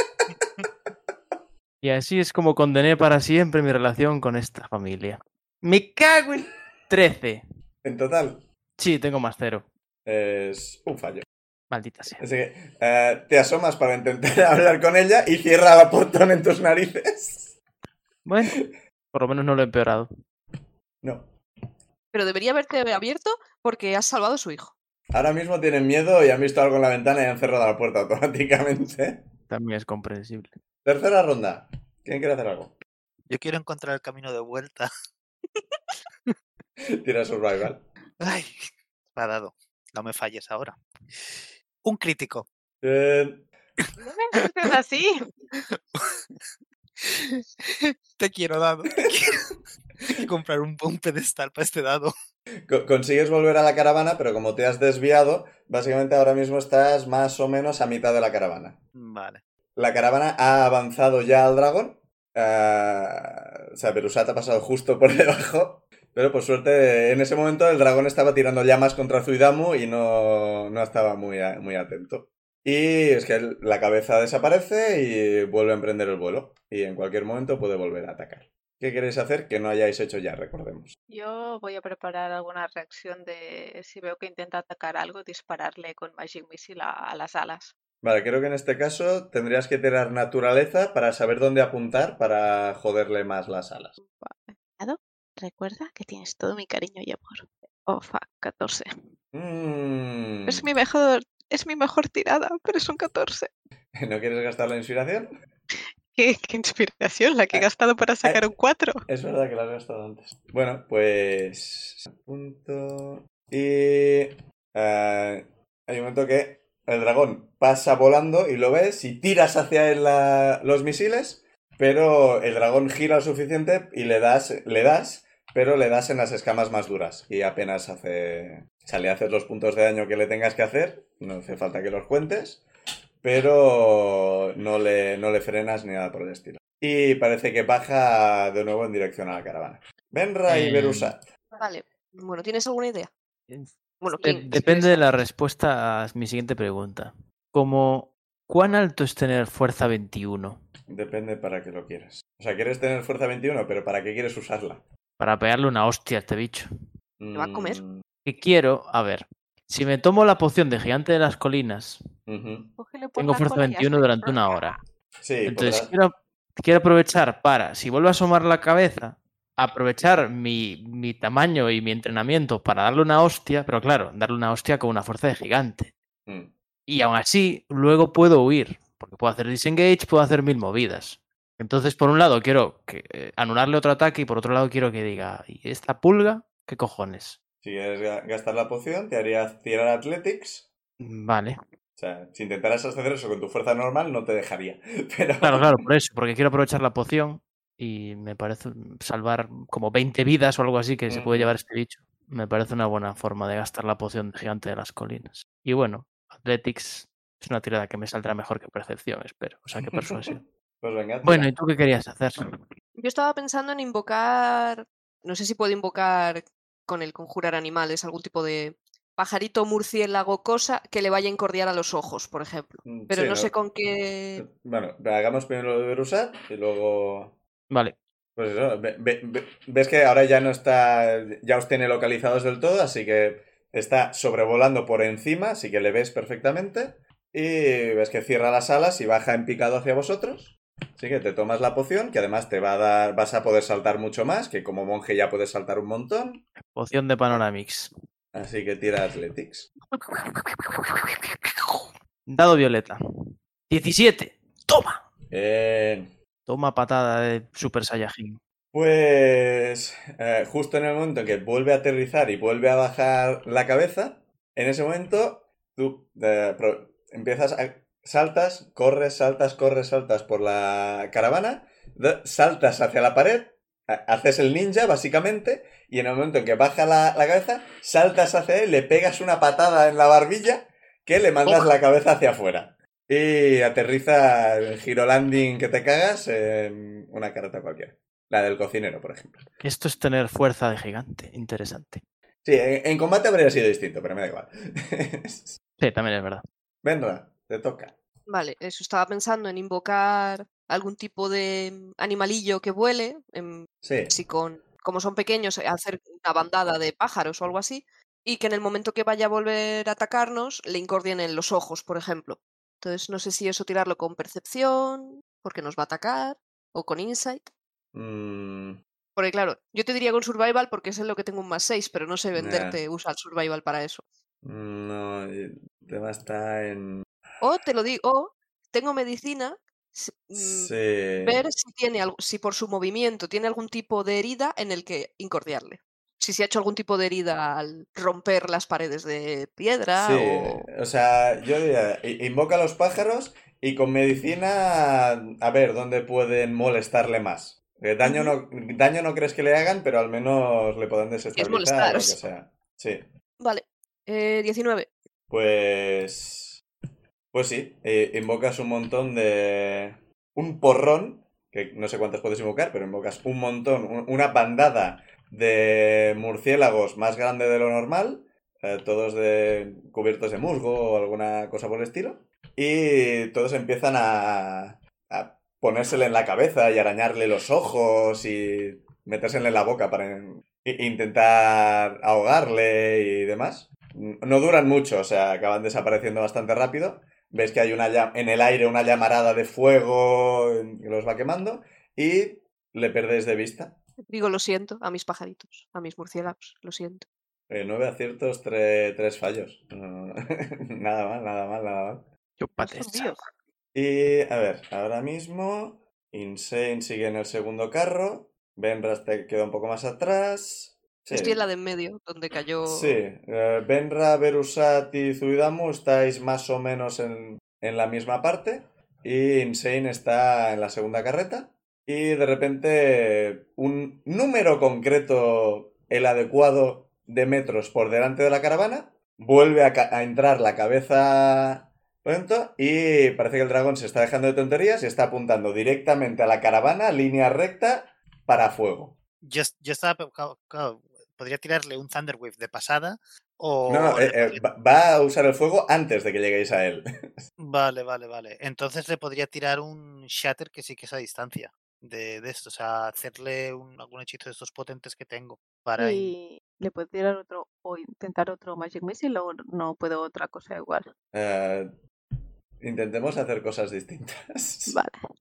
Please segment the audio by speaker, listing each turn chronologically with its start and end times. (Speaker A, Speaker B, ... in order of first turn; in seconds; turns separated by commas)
Speaker A: 1.8-7.4, Speaker B: 7.8-8.4, Speaker A: 8.8-9.7, Speaker B: 10.1-11.3, Speaker A: 11.7-12.2, Speaker B: 12.2-17.6, Speaker A: 18.2-18.6, Speaker A: 19.1-20.1, Speaker B: 21.0-21.4, Speaker C: 22.1-24.7, Speaker B: 25.1-29.3, Speaker A: 29.5-30.6, Speaker B: 30.9-32.8, Speaker D: 33.3-34.9, Speaker B: 36.9-37.9, Speaker D: 38.2-42.5, Speaker B: 42.8-43.5, Speaker E: 44.0-45.1, Speaker D: 45.7-46.1, Speaker D: 47.0-52.1, Speaker B: 52.7-58.8, Speaker D: 59.0-59.4, Speaker B: 59.8-80.9, Speaker E: 81.1-87.7, Speaker B: 88.0-94.0, Speaker E: 94.0-98.9, Speaker B: 99.3-100.7, Speaker E: 100.5-103.5, Speaker B: 104.0-105.3, Speaker E: 106.1-109.0, Speaker B: 109.1-132.6, Speaker B: 133.2-141.3, Speaker A: 140.5-141.1, Speaker C: 141.6-143.1, Speaker C: 144.0-145.0, Speaker A: 144.2-150.6, Speaker B: 150.9-154.8, Speaker A: 155.2-156.7, Speaker B: 157.2-158.0, Speaker C: 157.3-157.8, Speaker A: 158.2-162.0, Speaker B: 162.3-162.7, Speaker E: 162.8-164.7, Speaker A: 163.2-164.8, Speaker B: 165.2-165.9, Speaker A: 165.4-175.9, Speaker B: 176.2-176.5, Speaker A: 176.9-187.4, Speaker B: 187.6-190.7, Speaker A: 191.0-191.6, Speaker B: 192.0-195.8, Speaker A: 195.4-210.4, Speaker B: 201.1-201.5, Speaker B: 209.8-211.5, Speaker A: 211.2-212.6, Speaker C: 213.0-224.4, Speaker B: 222.8-223.5, Speaker B: 224.3-227.3, Speaker A: 227.7-228.0, Speaker B: 228.3-246.4, Speaker A: 246.6-247.9, Speaker B: 248.3-249.7, Speaker A: 249.9-253.0, Speaker A: 253.7-255.0, Speaker B: 255.3-256.1, Speaker A: 256.5-258.4, Speaker B: 258.7-289.5, Speaker A: 289.6-292.0, Speaker B: 292.4-295.6, Speaker A: 295.8-296.4, Speaker B: 296.8-297.9, Speaker C: 298.3-317.5, Speaker B: 303.8-304.1, Speaker B: 317.9-318.8, Speaker C: 319.1-324.0, Speaker B: 322.4-322.8, Speaker B: 324.4-327.1, Speaker C: 327.4-340.7, Speaker B: 330.4-331.4, Speaker B: 340.0-353.1, Speaker C: 351.4-352.2, Speaker C: 353.4-354.9, Speaker B: 355.3-356.6, Speaker B: 357.3-393.8, Speaker C: 394.1-397.1, Speaker B: 397.5-402.1, Speaker A: 402.4-403.2, Speaker E: 402.6-403.2, Speaker B: 403.7-411.4, Speaker C: 411.1-413.0, Speaker B: 412.6-439.0, Speaker D: 439.2-444.4, Speaker B: 443.7-447.2, Speaker D: 447.4-456.1, Speaker E: 455.8-460.9, Speaker B: 461.1-461.7, Speaker B: 462.6-464.8, Speaker E: 464.7-465.0